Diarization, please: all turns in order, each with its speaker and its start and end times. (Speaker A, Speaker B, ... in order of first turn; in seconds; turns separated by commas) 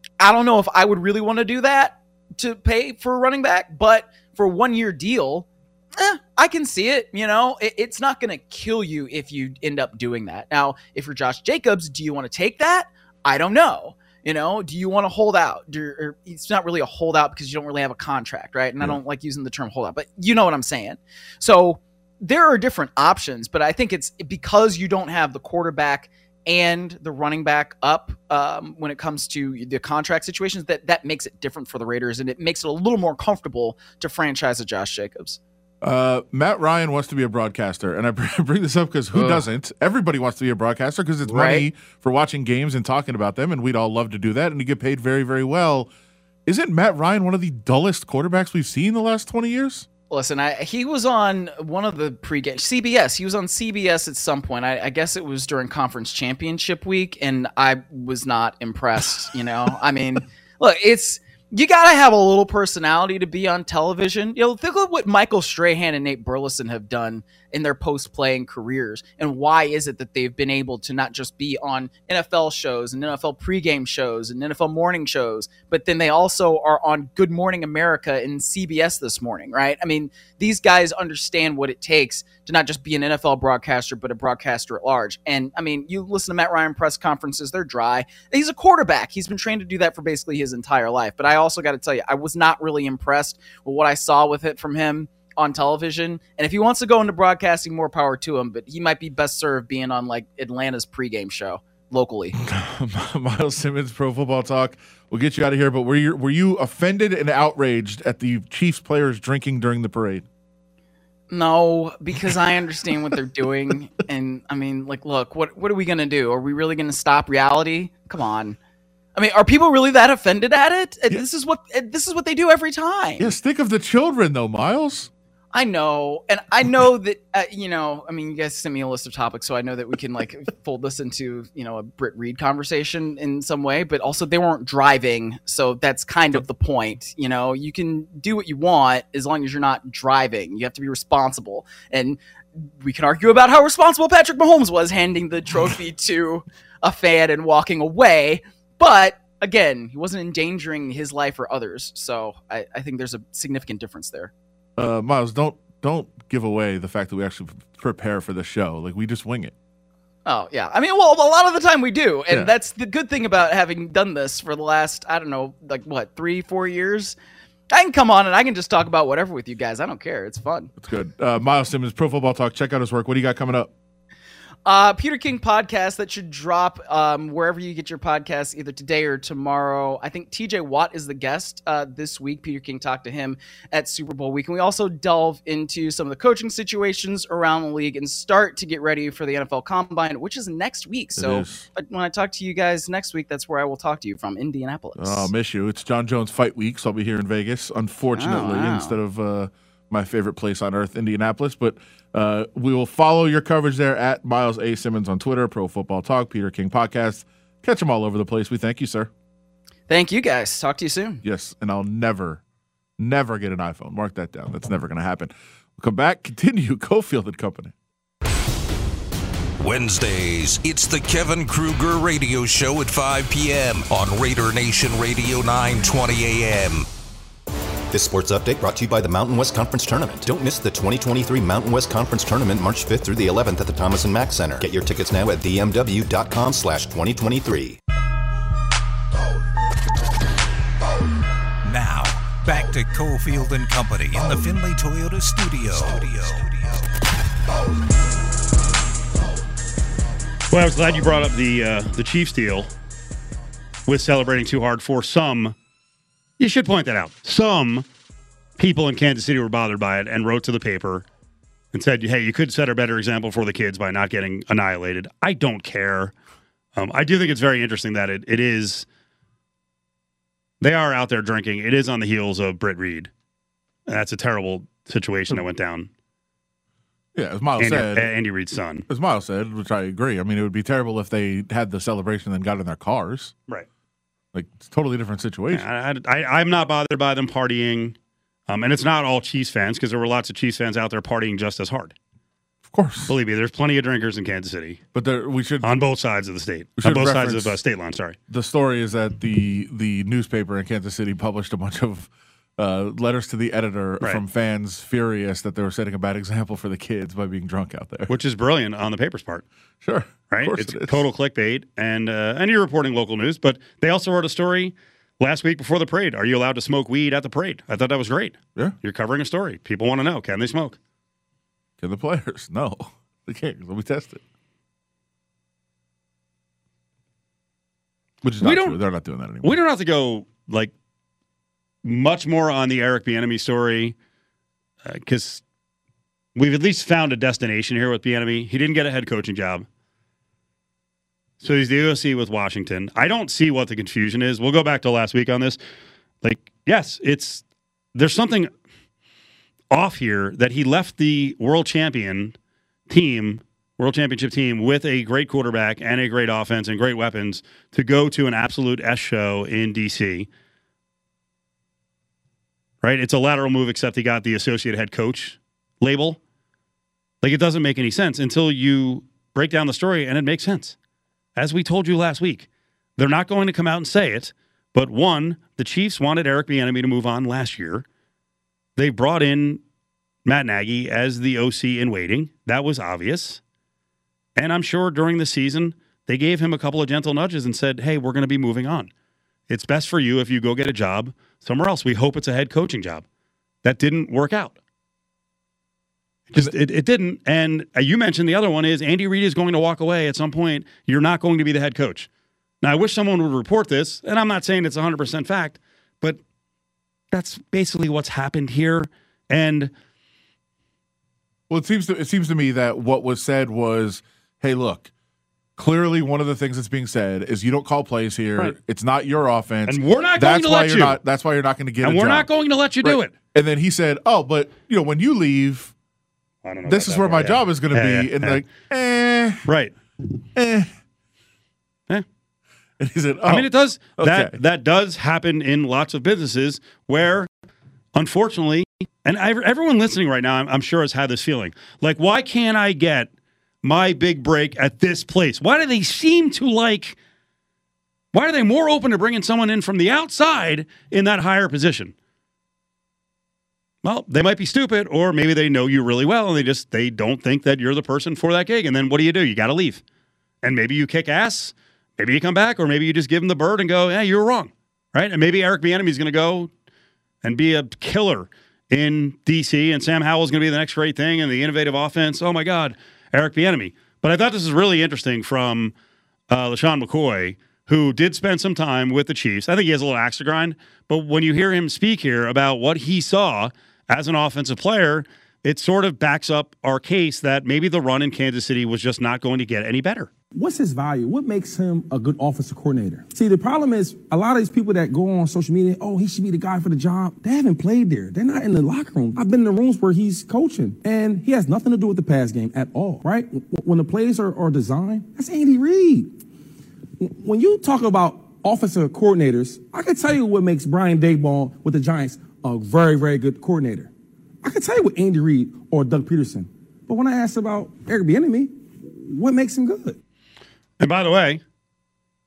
Speaker A: 0.2-35.4, Speaker B: 35.8-45.9, Speaker A: 39.1-39.4, Speaker A: 41.2-41.7, Speaker B: 46.5-49.9, Speaker A: 50.1-102.3, Speaker B: 102.4-110.2, Speaker A: 111.3-118.6, Speaker A: 119.2-123.3, Speaker B: 123.2-125.1, Speaker A: 125.5-154.3, Speaker B: 154.8-159.5, Speaker A: 160.2-167.2, Speaker A: 167.7-170.7, Speaker B: 170.8-173.7, Speaker A: 174.7-195.3, Speaker B: 191.2-191.7, Speaker B: 194.9-209.1, Speaker A: 198.1-198.9, Speaker A: 209.9-211.2, Speaker B: 211.2-212.4, Speaker B: 213.0-217.7, Speaker C: 219.6-226.8, Speaker D: 227.9-237.8, Speaker C: 241.6-246.8, Speaker E: 250.5-252.7, Speaker E: 253.9-255.5, Speaker E: 256.4-257.9, Speaker E: 258.6-261.0, Speaker E: 261.7-266.1, Speaker E: 266.7-268.9, Speaker E: 270.6-273.1, Speaker E: 273.9-275.9, Speaker B: 277.1-278.1, Speaker E: 277.6-278.9, Speaker B: 278.9-283.3, Speaker B: 284.3-285.7, Speaker E: 285.5-287.9, Speaker E: 288.5-291.9, Speaker B: 292.6-293.1, Speaker E: 293.1-294.8, Speaker B: 294.9-295.7, Speaker E: 295.6-298.2, Speaker B: 296.8-297.6, Speaker B: 298.3-308.1, Speaker E: 308.1-309.4, Speaker B: 309.8-311.0, Speaker E: 310.3-320.8, Speaker B: 321.8-324.2, Speaker B: 328.2-329.6, Speaker E: 328.4-328.8, Speaker E: 329.4-330.7, Speaker E: 331.8-333.9, Speaker E: 334.8-335.4, Speaker E: 336.3-339.6, Speaker E: 341.4-345.6, Speaker E: 346.2-347.4, Speaker E: 347.9-348.5, Speaker E: 349.7-352.3, Speaker E: 352.9-360.3, Speaker E: 362.8-366.2, Speaker E: 367.2-370.8, Speaker E: 371.4-377.8, Speaker E: 378.8-379.6, Speaker E: 380.2-383.4, Speaker E: 384.4-388.9, Speaker E: 389.5-393.0, Speaker E: 393.6-394.6, Speaker E: 396.3-402.1, Speaker E: 402.6-406.2, Speaker E: 407.1-409.7, Speaker B: 411.5-414.9, Speaker B: 415.6-422.3, Speaker E: 419.6-421.0, Speaker E: 421.8-423.1, Speaker B: 422.8-425.7, Speaker E: 426.4-428.4, Speaker B: 426.7-429.4, Speaker E: 429.4-429.7, Speaker B: 430.3-430.7, Speaker B: 432.8-434.4, Speaker E: 433.2-437.3, Speaker E: 437.9-443.1, Speaker E: 443.6-447.0, Speaker E: 448.1-451.9, Speaker E: 453.8-459.8, Speaker E: 460.4-466.5, Speaker E: 467.2-475.7, Speaker E: 476.3-490.1, Speaker F: 490.3-506.1, Speaker F: 507.0-513.9, Speaker F: 514.4-520.0, Speaker E: 520.8-521.4